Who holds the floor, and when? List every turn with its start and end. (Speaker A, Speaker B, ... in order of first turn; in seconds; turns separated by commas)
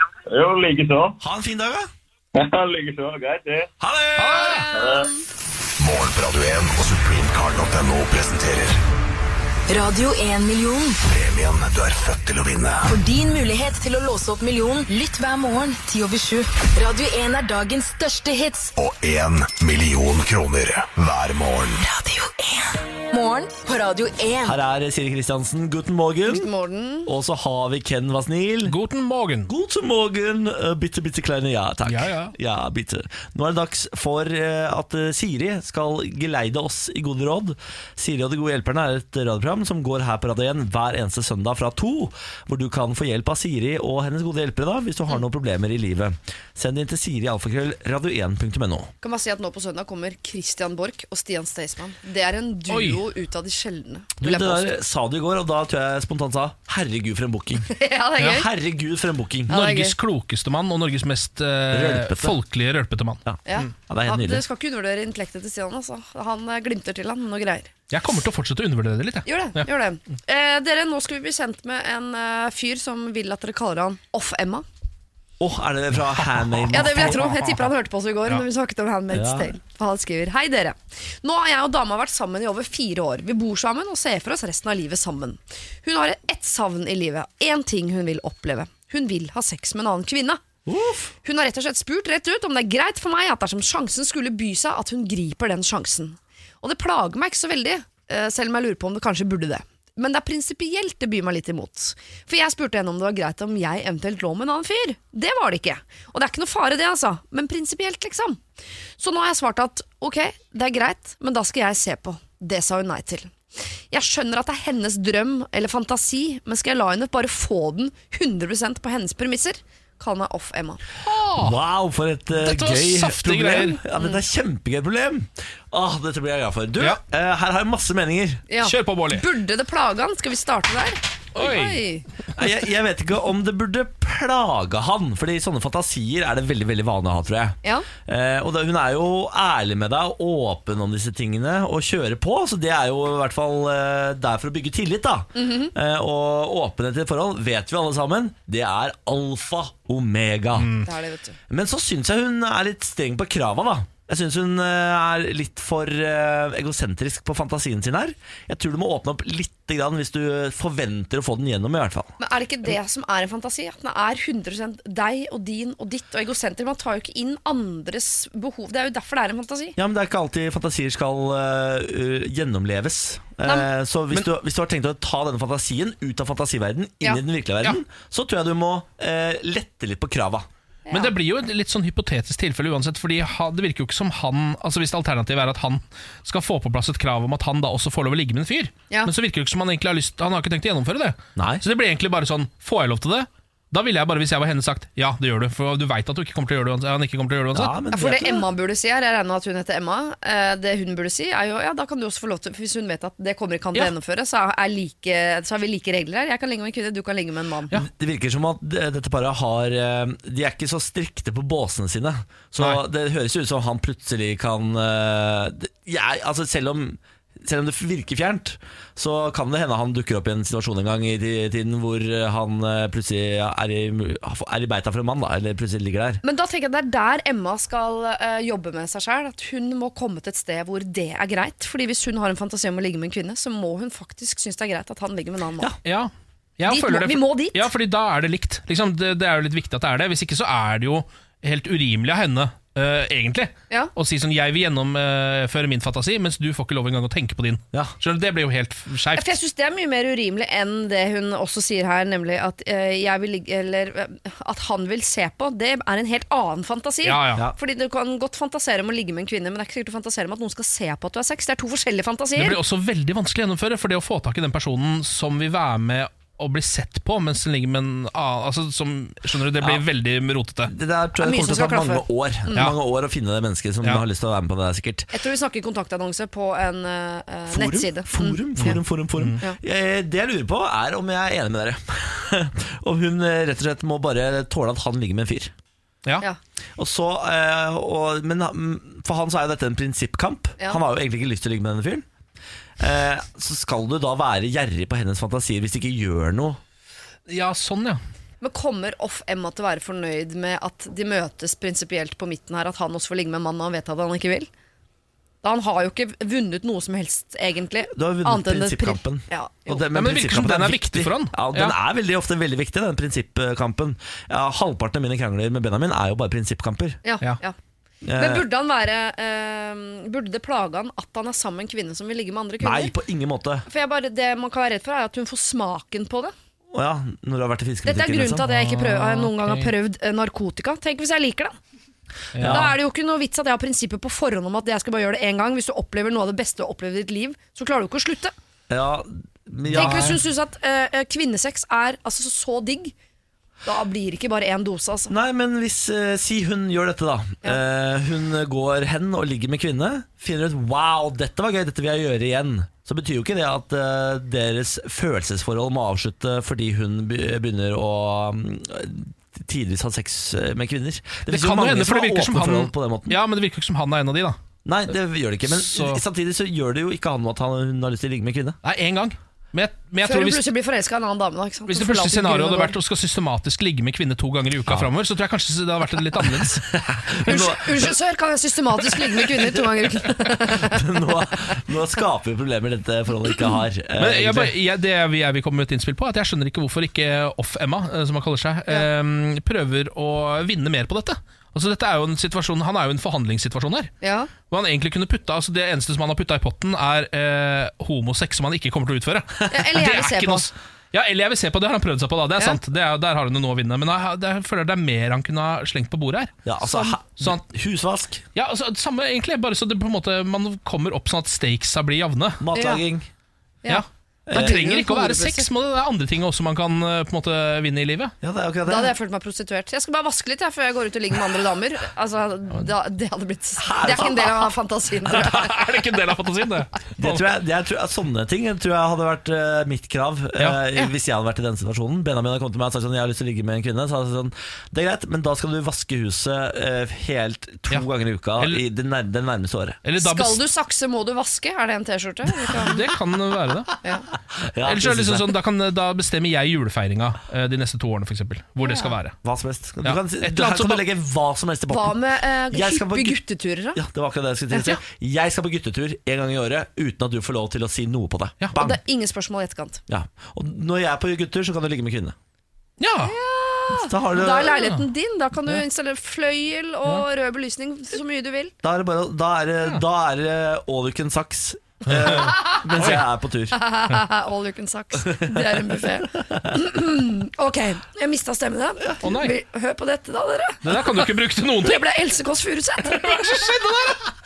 Speaker A: 0.3-1.2, Speaker B: 1.2-1.9, Speaker A: 2.3-3.7, Speaker B: 3.8-4.5, Speaker C: 4.2-4.7, Speaker D: 4.3-5.2, Speaker A: 4.7-5.1, Speaker E: 5.8-8.8, Speaker F: 9.7-11.0, Speaker E: 11.1-12.9, Speaker F: 12.9-18.7, Speaker E: 18.8-21.8, Speaker F: 21.8-24.6, Speaker B: 24.4-26.5, Speaker D: 26.2-27.1, Speaker B: 27.1-28.7, Speaker C: 28.6-29.5, Speaker B: 29.5-48.9, Speaker C: 31.8-32.3, Speaker D: 49.0-54.7, Speaker C: 52.7-53.0, Speaker B: 54.2-57.7, Speaker D: 57.7-58.5, Speaker B: 58.2-59.5, Speaker D: 59.5-60.0, Speaker C: 59.5-63.2, Speaker B: 61.7-62.4, Speaker B: 63.2-64.4, Speaker D: 63.5-67.7, Speaker C: 67.9-69.7, Speaker D: 69.2-74.7, Speaker B: 75.4-77.2, Speaker C: 76.5-77.7, Speaker D: 76.7-90.4, Speaker B: 79.1-79.5, Speaker B: 90.7-91.1, Speaker D: 91.2-108.4, Speaker D: 109.0-113.4, Speaker D: 113.9-120.8, Speaker C: 121.0-121.6, Speaker B: 121.4-128.4, Speaker C: 122.4-123.8, Speaker D: 128.5-132.1, Speaker C: 128.6-129.2, Speaker C: 131.3-131.9, Speaker B: 132.4-150.7, Speaker D: 145.3-145.7, Speaker C: 150.6-150.9, Speaker D: 150.8-151.4, Speaker B: 151.5-162.1, Speaker D: 162.2-169.8, Speaker B: 169.8-180.4, Speaker D: 173.4-173.7, Speaker D: 180.9-181.1, Speaker C: 180.9-197.7, Speaker B: 191.4-191.6, Speaker B: 197.5-198.4, Speaker D: 197.9-207.8, Speaker B: 207.8-226.2, Speaker D: 226.2-235.7, Speaker C: 235.8-249.3, Speaker D: 236.7-237.7, Speaker D: 249.1-262.6, Speaker C: 257.0-257.4, Speaker C: 262.4-270.7, Speaker B: 270.7-275.1, Speaker D: 271.2-272.7, Speaker D: 275.1-278.8, Speaker B: 277.5-285.5, Speaker C: 278.6-279.4, Speaker B: 286.8-292.0, Speaker B: 292.8-296.6, Speaker C: 297.3-298.0, Speaker D: 298.4-304.5, Speaker D: 305.4-309.8, Speaker B: 307.9-317.0, Speaker C: 309.9-311.7, Speaker D: 317.0-317.6, Speaker B: 318.0-318.4, Speaker D: 318.1-322.9, Speaker B: 322.6-323.7, Speaker D: 323.7-326.3, Speaker B: 326.7-328.4, Speaker D: 327.8-331.5, Speaker C: 328.4-329.7, Speaker C: 332.3-332.7, Speaker D: 332.4-338.3, Speaker B: 332.4-332.7, Speaker B: 338.7-340.1, Speaker C: 339.7-340.2, Speaker D: 339.7-342.9, Speaker D: 343.6-345.1, Speaker B: 345.1-363.2, Speaker C: 361.3-364.4, Speaker B: 364.6-368.6, Speaker C: 365.4-366.0, Speaker C: 368.6-370.4, Speaker D: 370.0-372.7, Speaker C: 371.7-376.6, Speaker B: 376.7-377.9, Speaker D: 377.2-380.9, Speaker B: 380.5-384.5, Speaker C: 384.0-393.9, Speaker D: 394.0-394.3, Speaker C: 394.5-406.4, Speaker D: 399.5-400.5, Speaker B: 406.4-408.2, Speaker C: 408.3-412.4, Speaker B: 412.4-413.1, Speaker D: 412.5-412.8, Speaker D: 413.6-415.5, Speaker C: 413.7-418.1, Speaker B: 414.3-414.7, Speaker B: 418.2-418.9, Speaker D: 418.6-425.9, Speaker B: 423.6-424.3, Speaker C: 425.1-427.2, Speaker B: 427.0-439.8, Speaker C: 439.8-440.4, Speaker D: 440.0-442.9, Speaker C: 442.5-443.7, Speaker B: 444.4-445.3, Speaker C: 444.6-449.2, Speaker D: 448.6-449.0, Speaker B: 449.2-452.0, Speaker C: 449.8-450.8, Speaker D: 451.7-453.8, Speaker B: 452.5-453.2, Speaker B: 453.7-458.8, Speaker D: 458.5-459.8, Speaker B: 459.9-462.1, Speaker C: 462.8-463.1, Speaker D: 463.0-468.5, Speaker B: 463.7-464.5, Speaker C: 464.5-464.8, Speaker B: 468.6-473.6, Speaker C: 471.9-473.0, Speaker D: 472.2-472.6, Speaker D: 473.5-481.0, Speaker C: 479.0-479.3, Speaker C: 480.6-481.9, Speaker D: 481.6-483.7, Speaker C: 482.9-484.0